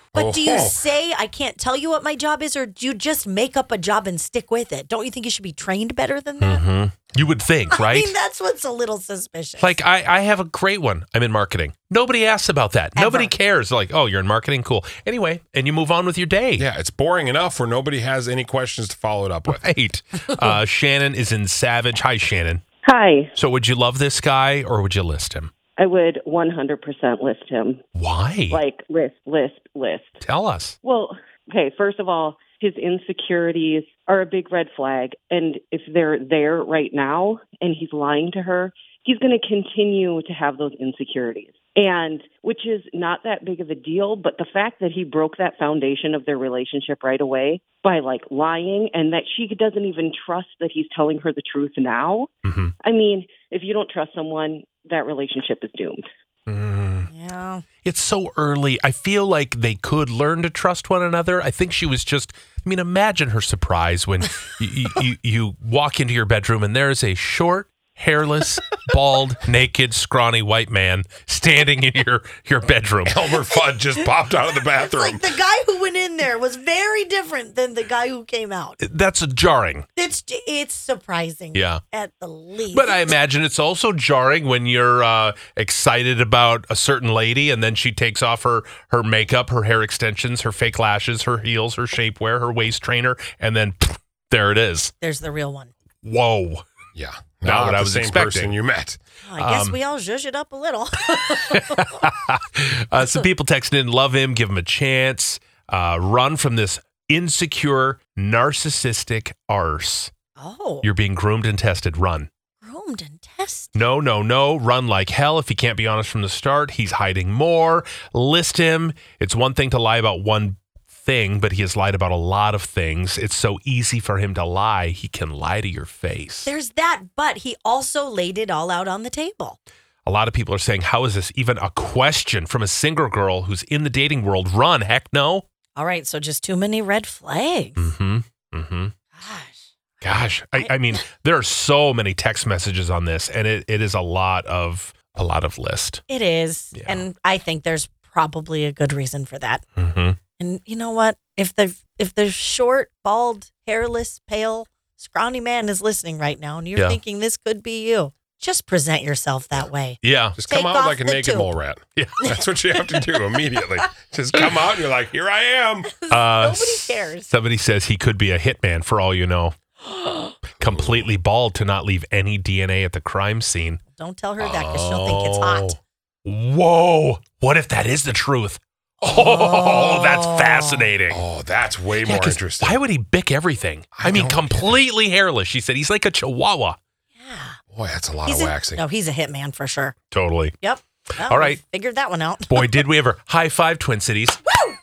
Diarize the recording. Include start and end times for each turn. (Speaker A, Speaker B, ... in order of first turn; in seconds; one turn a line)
Speaker A: 0.1-6.6
Speaker B: 0.1-0.7
Speaker C: 6.4-8.1
Speaker A: 7.7-9.8
Speaker C: 9.6-16.6
Speaker A: 12.9-13.3
Speaker B: 16.6-19.6
Speaker C: 19.5-22.6
Speaker D: 22.8-23.3
Speaker C: 23.3-25.5
Speaker D: 25.8-27.8
Speaker C: 27.9-28.6
Speaker D: 28.5-30.2
Speaker C: 30.2-30.8
Speaker D: 30.8-52.3
Speaker C: 52.4-52.7
Speaker D: 52.8-56.0
Speaker C: 56.5-57.1
Speaker A: 57.1-57.6
Speaker C: 57.8-73.2
Speaker B: 73.0-75.2
Speaker A: 74.5-78.8
Speaker C: 78.8-79.8
Speaker A: 80.0-83.1
Speaker C: 81.5-81.8
Speaker C: 82.7-94.9
Speaker A: 95.0-95.7
Speaker C: 96.0-96.6
Speaker B: 96.9-99.0
Speaker C: 97.4-98.6
Speaker A: 99.2-101.9
Speaker C: 99.4-99.8
Speaker C: 101.1-110.1
Speaker A: 110.4-110.8
Speaker C: 110.8-112.3
Speaker A: 112.6-113.9
Speaker C: 113.7-126.5
Speaker A: 126.5-129.6
Speaker C: 130.0-135.4
Speaker A: 135.8-137.9
Speaker C: 137.8-138.9
Speaker A: 139.1-141.0
Speaker C: 140.0-146.0
Speaker A: 146.1-149.6
Speaker C: 146.7-147.0
Speaker C: 149.8-150.2
Speaker A: 150.4-161.5
Speaker C: 160.0-160.4
Speaker B: 160.4-165.9
Speaker C: 162.0-162.2
Speaker A: 165.8-167.3
Speaker C: 166.1-169.5
Speaker A: 169.9-170.3
Speaker C: 170.6-173.8
Speaker B: 170.6-171.1
Speaker A: 173.9-175.8
Speaker C: 174.4-175.7
Speaker C: 176.2-181.2
Speaker A: 179.0-180.9
Speaker B: 181.1-182.8
Speaker C: 182.0-186.8
Speaker B: 183.9-184.8
Speaker A: 187.2-187.6
Speaker B: 187.7-188.8
Speaker A: 188.2-189.9
Speaker C: 190.1-190.6
Speaker A: 190.6-192.8
Speaker C: 191.2-191.6
Speaker C: 192.5-194.4